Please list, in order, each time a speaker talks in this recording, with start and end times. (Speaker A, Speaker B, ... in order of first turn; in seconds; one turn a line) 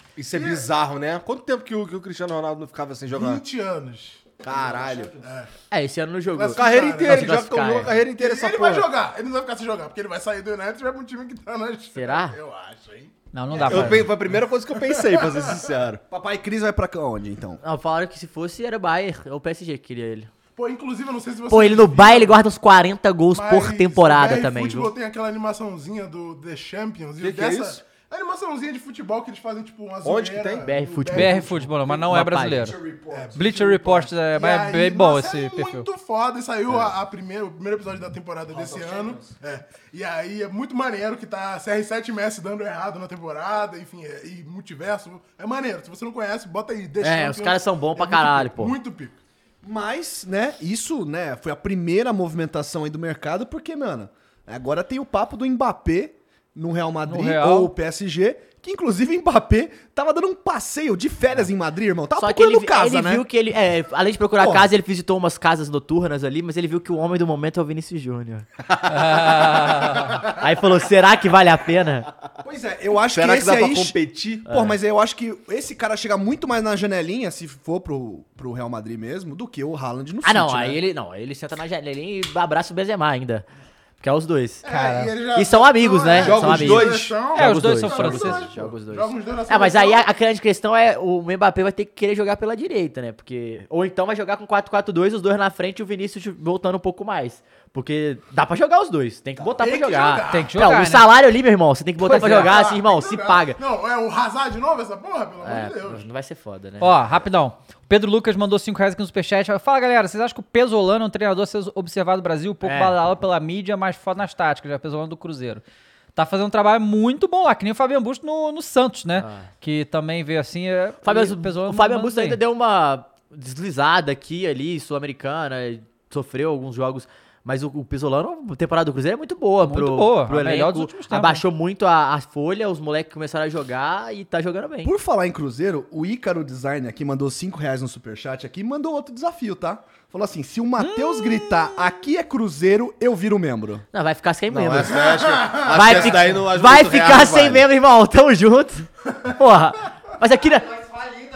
Speaker A: 0.2-3.4
Speaker B: 0.3-0.7
Speaker B: 3.1-4.2
Speaker A: 4.4-5.1
Speaker C: 4.5-5.1
Speaker B: 5.2-5.5
Speaker D: 5.7-8.0
Speaker B: 6.3-7.3
Speaker A: 6.5-8.9
Speaker B: 8.1-15.5
Speaker D: 11.9-12.4
Speaker E: 13.3-14.1
Speaker A: 13.7-16.0
Speaker C: 16.1-17.6
Speaker D: 17.6-20.3
Speaker B: 20.6-22.3
Speaker D: 21.5-24.9
Speaker B: 23.3-32.0
Speaker A: 27.2-27.8
Speaker A: 30.0-30.7
Speaker D: 30.6-32.8
Speaker E: 31.1-32.8
Speaker C: 32.6-33.5
Speaker B: 33.1-49.2
Speaker E: 33.3-35.9
Speaker C: 38.5-39.3
Speaker D: 47.0-48.7
Speaker C: 49.6-63.3
Speaker E: 57.1-57.7
Speaker D: 62.1-72.1
Speaker C: 64.4-64.7
Speaker E: 68.9-70.1
Speaker C: 72.4-80.8
Speaker A: 73.0-74.5
Speaker D: 74.5-74.7
Speaker D: 80.2-83.5
Speaker D: 84.0-103.6
Speaker B: 84.6-90.1
Speaker A: 86.1-87.3
Speaker E: 87.3-88.5
Speaker B: 99.5-100.6
Speaker E: 100.3-101.1
Speaker E: 102.0-102.5
Speaker B: 102.0-106.0
Speaker D: 105.4-107.0
Speaker E: 106.8-115.6
Speaker D: 112.6-113.0
Speaker E: 116.2-122.4
Speaker D: 119.2-119.5
Speaker D: 121.0-134.9
Speaker E: 129.6-131.4
Speaker C: 134.8-143.8
Speaker E: 140.8-141.9
Speaker D: 143.9-150.8
Speaker A: 144.5-147.7
Speaker B: 145.2-145.6